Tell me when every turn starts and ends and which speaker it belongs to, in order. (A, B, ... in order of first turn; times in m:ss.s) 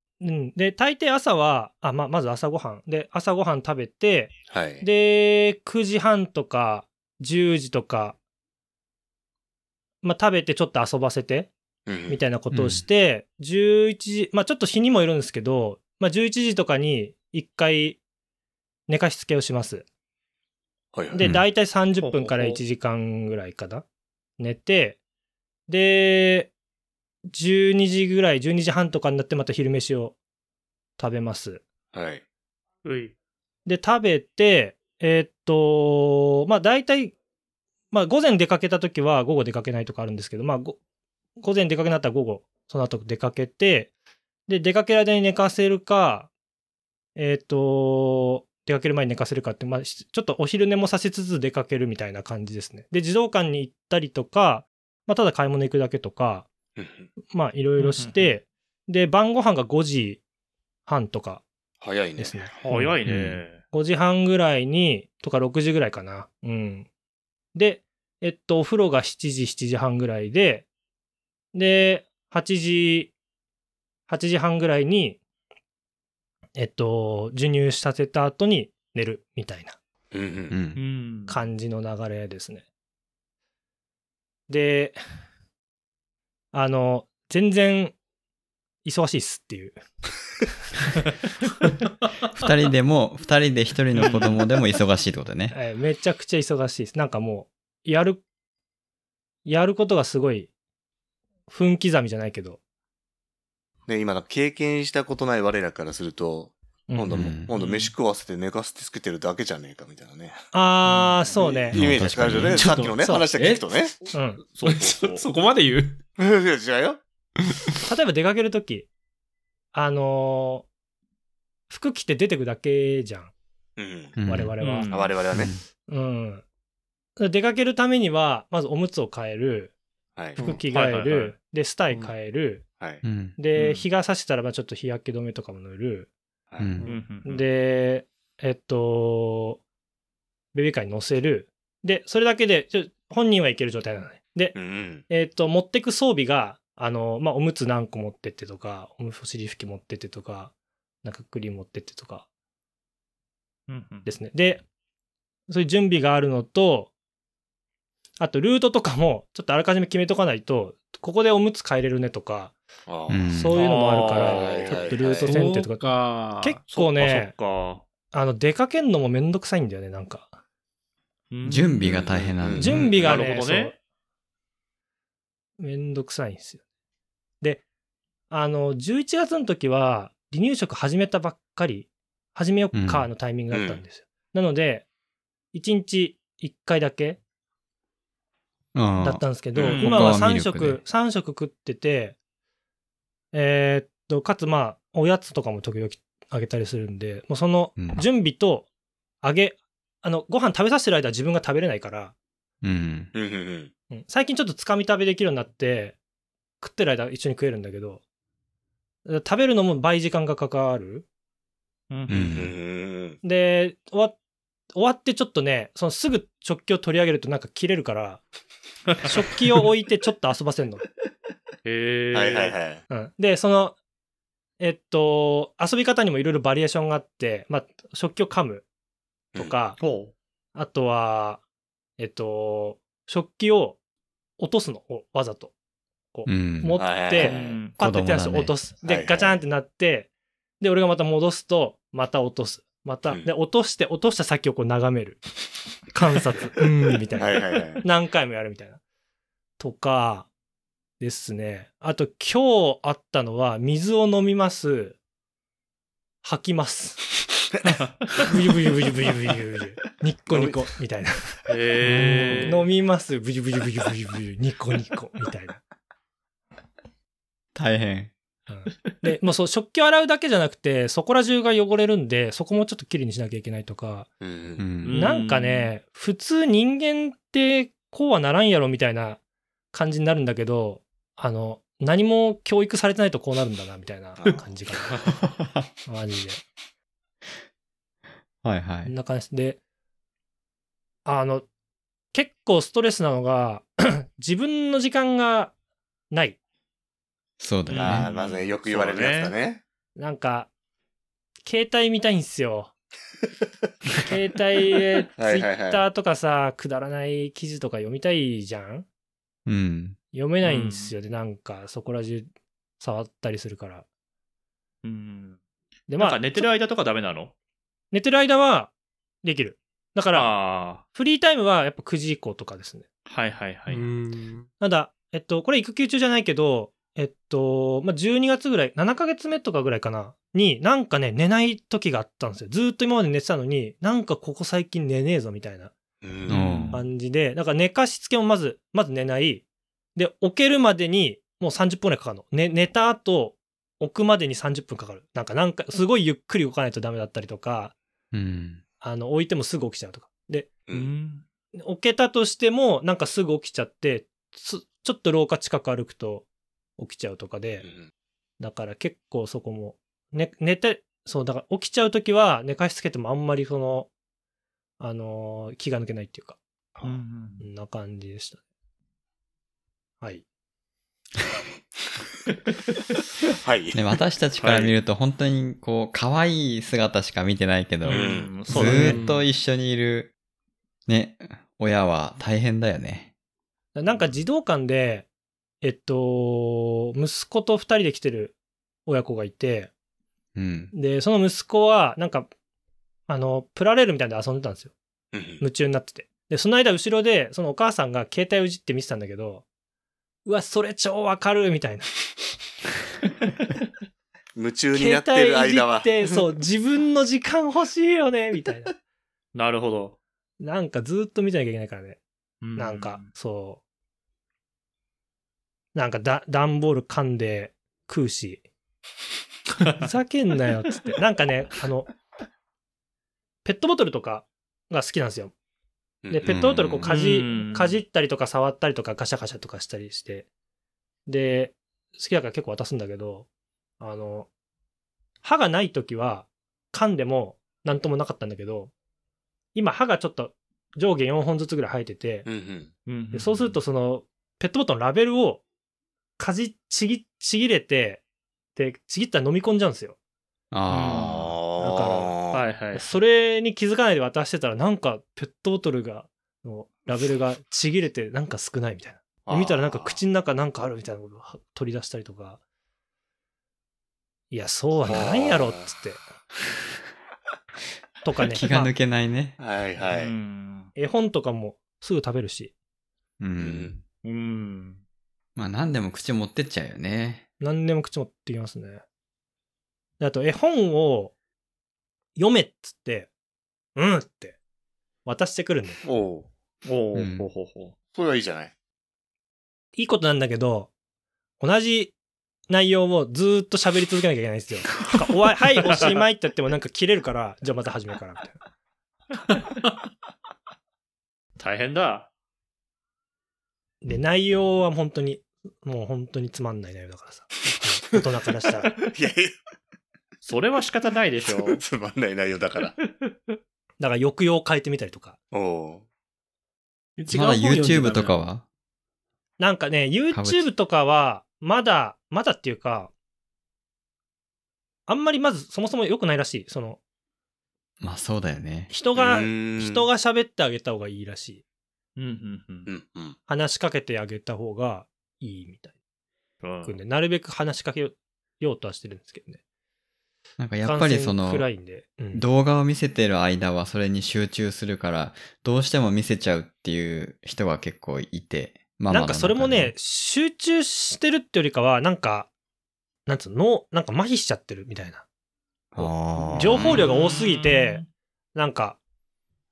0:00.2-0:08.2 A
0:04.5-0:04.9 B
0:10.0-0:11.5 A
0:11.9-0:12.2 B
0:12.1-0:18.0 A
0:12.5-0:12.8 C
0:18.9-0:19.9 A
0:20.9-0:21.2 B
0:21.1-0:23.8 A
0:22.0-0:22.6 D
0:24.4-0:25.0 A
0:25.7-0:26.5 A
0:27.3-0:30.2 A
0:31.0-0:31.6 A
0:31.9-0:32.2 B
0:32.8-0:33.1 D
0:33.7-0:37.2 A
0:37.9-0:40.8 A
0:41.4-0:43.9 A
0:44.5-0:46.3 A
0:47.2-0:56.5 A
0:56.8-0:57.1 B
0:57.3-1:00.2 A
0:57.8-0:58.3 D
1:00.9-1:01.4 A
1:01.8-1:02.6 B
1:02.2-1:02.5 A
1:02.6-1:03.6 D
1:03.0-1:03.4 C
1:03.7-1:06.9 A
1:07.5-1:10.7 A
1:11.5-1:13.1 A
1:14.1-1:15.2 A
1:16.6-1:19.8 A
1:20.1-1:20.6 B
1:20.5-1:20.8 C
1:20.8-1:21.4 D
1:21.3-1:22.6 A
1:24.5-1:25.0 A
1:26.5-1:28.0 A
1:28.8-1:29.8 A
1:32.3-1:35.6 C
1:34.0-1:34.4 D
1:35.5-1:38.2 A
1:39.4-1:40.5 A
1:41.5-1:42.6 A
1:43.9-1:50.4 B
1:46.9-1:47.4 A
1:47.1-1:47.5 C
1:47.6-1:47.9 D
1:50.5-1:51.8 A
1:50.9-1:51.2 D
1:51.4-1:53.9 B
1:51.7-1:52.6 C
1:52.2-1:56.0 E
1:54.1-1:54.4 A
1:54.6-1:55.2 D
1:56.2-1:57.0 B
1:57.9-1:58.9 A
1:59.7-2:00.7 A
2:01.7-2:03.3 A
2:03.8-2:04.2 B
2:04.2-2:04.6 C
2:04.2-2:04.9 A
2:04.6-2:05.2 D
2:04.9-2:05.5 B
2:05.3-2:05.6 C
2:05.9-2:06.4 A
2:07.2-2:09.7 A
2:10.2-2:10.4 B
2:10.4-2:10.6 E
2:10.4-2:12.6 A
2:10.7-2:11.4 D
2:13.0-2:13.4 C
2:13.4-2:16.1 A
2:13.6-2:13.8 D
2:16.5-2:16.8 B
2:16.6-2:16.9 C
2:16.9-2:17.4 D
2:17.2-2:19.6 A
2:20.5-2:24.6 A
2:24.6-2:25.0 B
2:25.1-2:30.5 A
2:31.0-2:32.3 A
2:33.7-2:34.1 D
2:34.1-2:34.6 A
2:35.5-2:36.9 A
2:38.2-2:42.5 A
2:42.9-2:43.3 B
2:43.1-2:43.6 C
2:43.3-2:45.8 A
2:43.6-2:44.9 D
2:44.1-2:45.3 B
2:45.3-2:46.6 E
2:46.4-2:47.3 A
2:46.7-2:47.8 D
2:48.1-2:50.4 A
2:51.3-2:51.8 D
2:51.4-2:53.1 C
2:51.8-2:53.2 B
2:52.6-2:53.8 A
2:53.0-2:53.8 D
2:55.6-2:56.6 A
2:58.3-3:04.9 A
3:02.7-3:03.1 C
3:03.5-3:03.8 B
3:05.5-3:07.2 A
3:08.8-3:09.2 C
3:09.0-3:12.2 A
3:09.5-3:09.8 B
3:09.6-3:10.2 D
3:09.8-3:10.8 C
3:13.3-3:18.7 A
3:17.8-3:18.0 C
3:19.2-3:22.1 A
3:22.6-3:23.1 C
3:23.1-3:23.7 B
3:23.9-3:26.0 A
3:26.6-3:28.0 A
3:29.0-3:31.1 A
3:31.9-3:32.3 D
3:32.1-3:32.5 C
3:32.1-3:33.2 B
3:33.2-3:34.2 A
3:34.7-3:38.2 A
3:39.0-3:40.8 A
3:41.6-3:42.6 D
3:42.1-3:42.8 B
3:42.9-3:43.8 A
3:44.6-3:48.6 A
3:49.4-3:49.8 A
3:49.8-3:50.1 D
3:50.6-3:51.4 A
3:52.0-3:53.8 A
3:54.4-3:55.5 A
3:56.1-4:00.1 A
3:56.3-3:56.8 C
3:56.8-3:57.6 B
3:57.2-3:57.7 D
3:57.8-3:58.6 C
3:58.8-3:59.4 B
4:00.6-4:05.2 A
4:05.9-4:08.8 A
4:06.6-4:07.2 E
4:07.2-4:07.8 B
4:09.6-4:10.3 A
4:11.0-4:15.0 A
4:16.2-4:17.0 A
4:18.2-4:21.4 A
4:20.3-4:20.6 B
4:21.5-4:22.6 D
4:21.8-4:22.6 E
4:22.4-4:25.6 A
4:27.6-4:28.1 C
4:28.5-4:34.1 A
4:34.2-4:34.7 B
4:34.6-4:35.0 C
4:34.8-4:35.7 D
4:34.9-4:39.2 A
4:39.7-4:45.0 A
4:45.9-4:46.4 A
4:48.4-4:48.9 C
4:48.8-4:49.6 A
4:51.0-4:51.5 A
4:52.1-4:55.5 A
4:56.1-4:56.4 A
4:57.4-4:58.1 C
4:57.7-4:59.3 D
4:57.7-4:59.6 B
5:00.0-5:00.5 A
5:01.4-5:02.7 A
5:04.1-5:08.9 A
5:05.2-5:05.8 B
5:09.5-5:10.0 C
5:10.1-5:12.3 A
5:10.4-5:10.9 D
5:12.8-5:13.8 A
5:14.8-5:15.4 D
5:15.9-5:16.5 A
5:16.0-5:17.3 D
5:17.9-5:18.7 A
5:19.2-5:20.4 A
5:20.1-5:20.8 D
5:20.9-5:22.8 A
5:23.1-5:23.9 D
5:23.7-5:24.5 E
5:24.6-5:35.7 A
5:36.0-5:36.8 B
5:36.3-5:36.8 C
5:36.7-5:47.7 A
5:48.1-5:48.6 C
5:48.8-5:50.5 A
5:50.7-5:51.2 D
5:51.6-5:56.3 A
5:56.8-5:57.7 A
5:57.6-5:57.9 B
5:58.4-6:03.9 A
6:04.8-6:06.4 A
6:06.8-6:07.0 B
6:06.8-6:07.4 D
6:07.4-6:08.4 A
6:13.4-6:13.8 B
6:13.7-6:20.1 C
6:14.4-6:14.7 D
6:17.8-6:19.0 D
6:17.9-6:18.4 B
6:18.5-6:19.2 E
6:20.9-6:23.1 C
6:23.8-6:25.1 A
6:25.6-6:28.4 A
6:28.9-6:29.7 A
6:30.4-6:30.7 C
6:30.7-6:32.3 A
6:33.1-6:34.7 A
6:35.1-6:35.4 B
6:35.4-6:39.4 A
6:40.2-6:41.9 A
6:44.4-6:46.2 B
6:44.7-6:48.7 A
6:49.4-6:50.0 D
6:50.4-6:52.0 A
6:52.4-6:53.1 D
6:52.6-6:53.6 A
6:55.8-6:58.4 A
6:59.8-7:01.9 A
7:03.4-7:05.3 A
7:06.0-7:06.4 B
7:06.1-7:10.3 A
7:06.3-7:06.9 C
7:06.8-7:07.8 D
7:11.1-7:13.3 A
7:13.8-7:14.3 A
7:15.2-7:18.7 A
7:19.6-7:22.3 A
7:22.3-7:22.7 B
7:22.9-7:23.6 D
7:23.1-7:25.4 A
7:26.2-7:28.0 A
7:28.6-7:30.0 A
7:30.5-7:31.3 C
7:30.7-7:31.2 D
7:31.0-7:32.4 B
7:31.6-7:32.2 A
7:32.3-7:32.9 D
7:32.7-7:42.4 A
7:39.3-7:40.0 B
7:44.3-7:46.0 A
7:44.9-7:45.7 B
7:48.0-7:48.7 A
7:48.3-7:49.4 C
7:49.4-7:50.1 B
7:49.8-7:50.7 D
7:50.8-7:52.5 A
7:53.2-7:53.8 C
7:53.4-7:53.7 B
7:54.0-7:54.8 D
7:55.4-7:57.2 C
7:57.4-7:58.8 A
8:00.0-8:01.1 A
8:02.2-8:03.1 A
8:03.8-8:04.4 A
8:05.0-8:05.8 A
8:05.8-8:06.3 B
8:06.6-8:07.8 D
8:06.9-8:07.3 C
8:07.9-8:08.5 B
8:09.8-8:10.7 A
8:11.4-8:11.9 A
8:12.5-8:18.4 A
8:21.4-8:22.1 D
8:23.8-8:28.7 A
8:28.9-8:29.3 B
8:30.2-8:31.6 D
8:31.3-8:32.8 B
8:32.8-8:33.4 D
8:33.8-8:35.2 A
8:35.3-8:35.8 B
8:37.0-8:38.2 E
8:37.1-8:38.4 C
8:39.4-8:42.9 A
8:40.1-8:40.5 C
8:44.9-8:46.8 A
8:47.8-8:48.7 C
8:48.7-8:51.4 A
8:49.0-8:49.9 B
8:52.0-8:52.7 D
8:52.7-8:53.2 B
8:53.3-8:55.7 A
8:56.4-8:56.8 D
8:56.6-8:59.4 A
9:00.4-9:01.5 C
9:00.6-9:02.2 A
9:02.1-9:09.7 C
9:08.9-9:12.3 A
9:13.1-9:15.0 A
9:15.8-9:16.8 C
9:15.8-9:17.8 A
9:16.4-9:16.6 B
9:16.6-9:17.9 D
9:18.4-9:18.8 A